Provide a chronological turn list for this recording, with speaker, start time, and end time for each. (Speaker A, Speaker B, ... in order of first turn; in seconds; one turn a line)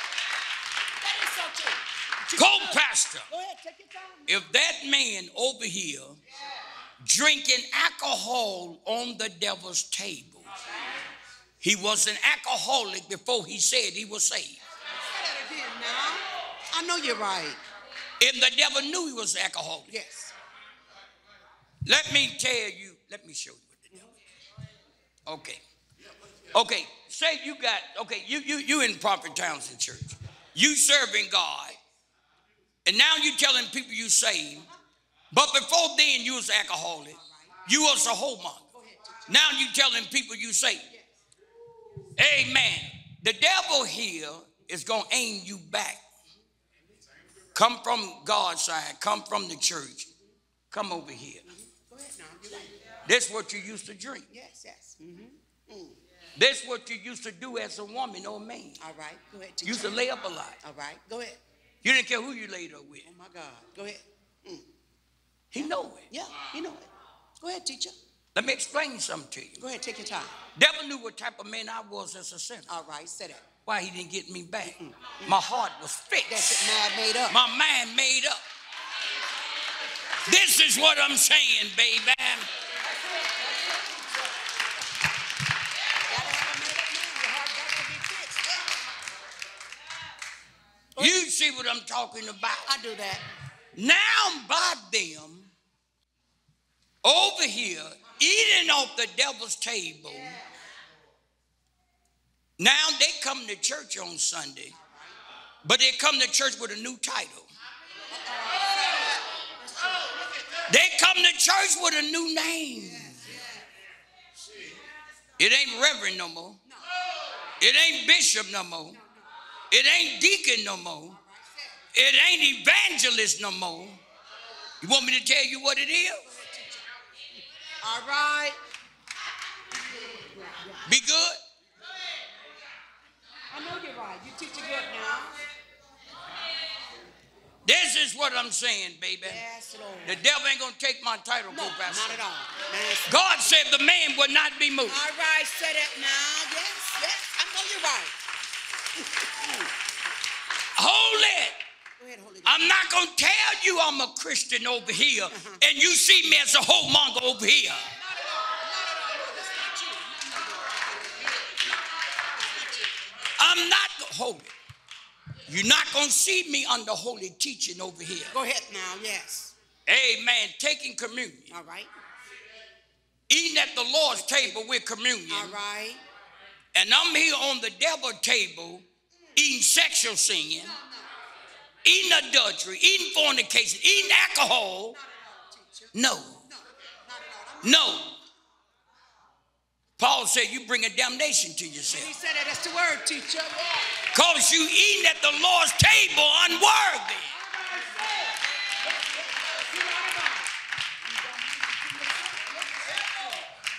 Speaker A: 1.0-4.4
Speaker B: 2.3-3.3
Speaker B: 4.3-6.2
Speaker B: 7.0-10.5
Speaker A: 10.7-11.0
Speaker B: 11.6-14.6
Speaker A: 14.9-17.6
Speaker B: 18.2-19.9
Speaker A: 19.9-20.3
Speaker B: 21.8-23.9
Speaker B: 25.3-25.6
Speaker B: 26.5-31.8
Speaker B: 32.8-34.7
Speaker B: 35.3-38.6
Speaker A: 37.1-37.5
Speaker A: 38.7-39.3
Speaker B: 39.3-40.9
Speaker A: 40.9-41.2
Speaker B: 42.2-46.0
Speaker B: 47.5-50.1
Speaker B: 50.7-51.5
Speaker A: 51.5-52.7
Speaker B: 53.0-54.3
Speaker A: 54.3-56.0
Speaker B: 56.4-58.8
Speaker A: 58.8-60.0
Speaker B: 59.6-60.6
Speaker A: 60.6-61.4
Speaker B: 61.8-63.0
Speaker A: 63.0-64.7
Speaker B: 65.5-66.0
Speaker A: 65.6-66.9
Speaker A: 67.4-68.0
Speaker B: 68.3-69.6
Speaker A: 69.6-70.3
Speaker B: 70.5-72.7
Speaker A: 72.7-73.5
Speaker B: 73.7-76.7
Speaker A: 74.6-75.4
Speaker A: 76.3-77.4
Speaker B: 77.3-78.4
Speaker B: 80.2-82.5
Speaker A: 82.8-84.5
Speaker A: 86.1-88.7
Speaker B: 91.0-92.7
Speaker A: 92.6-93.2
Speaker B: 93.7-95.5
Speaker B: 97.0-100.4
Speaker A: 100.1-100.5
Speaker B: 102.6-104.7
Speaker A: 104.7-105.2
Speaker B: 105.6-107.5
Speaker A: 108.1-110.5
Speaker B: 110.7-113.2
Speaker A: 112.8-113.7
Speaker B: 115.4-116.6
Speaker B: 117.6-119.0
Speaker A: 118.9-119.3
Speaker B: 119.7-121.2
Speaker A: 121.1-121.8
Speaker B: 121.9-124.0
Speaker B: 124.8-126.3
Speaker A: 126.2-126.9
Speaker A: 127.8-128.6
Speaker A: 130.0-130.9
Speaker B: 130.9-131.4
Speaker A: 133.5-135.4
Speaker B: 137.6-139.4
Speaker A: 139.2-140.2
Speaker B: 140.1-142.2
Speaker A: 141.5-143.3
Speaker B: 143.1-145.0
Speaker A: 144.9-148.1
Speaker A: 148.9-149.7
Speaker B: 150.8-151.6
Speaker A: 152.0-152.6
Speaker B: 152.4-157.9
Speaker A: 155.3-155.6
Speaker A: 157.9-161.6
Speaker B: 163.4-164.5
Speaker B: 165.5-168.3
Speaker A: 168.3-169.5
Speaker B: 169.9-171.5
Speaker A: 171.5-171.9
Speaker B: 173.3-175.6
Speaker A: 174.1-174.6
Speaker A: 175.3-176.0
Speaker B: 176.7-178.8
Speaker B: 179.4-180.7
Speaker A: 180.6-181.1
Speaker B: 181.8-185.0
Speaker A: 184.9-185.9
Speaker B: 185.9-186.4
Speaker A: 186.4-188.0
Speaker B: 187.6-188.2
Speaker B: 190.0-192.1
Speaker A: 191.9-194.0
Speaker B: 194.1-197.3
Speaker A: 197.3-200.5
Speaker A: 201.1-203.3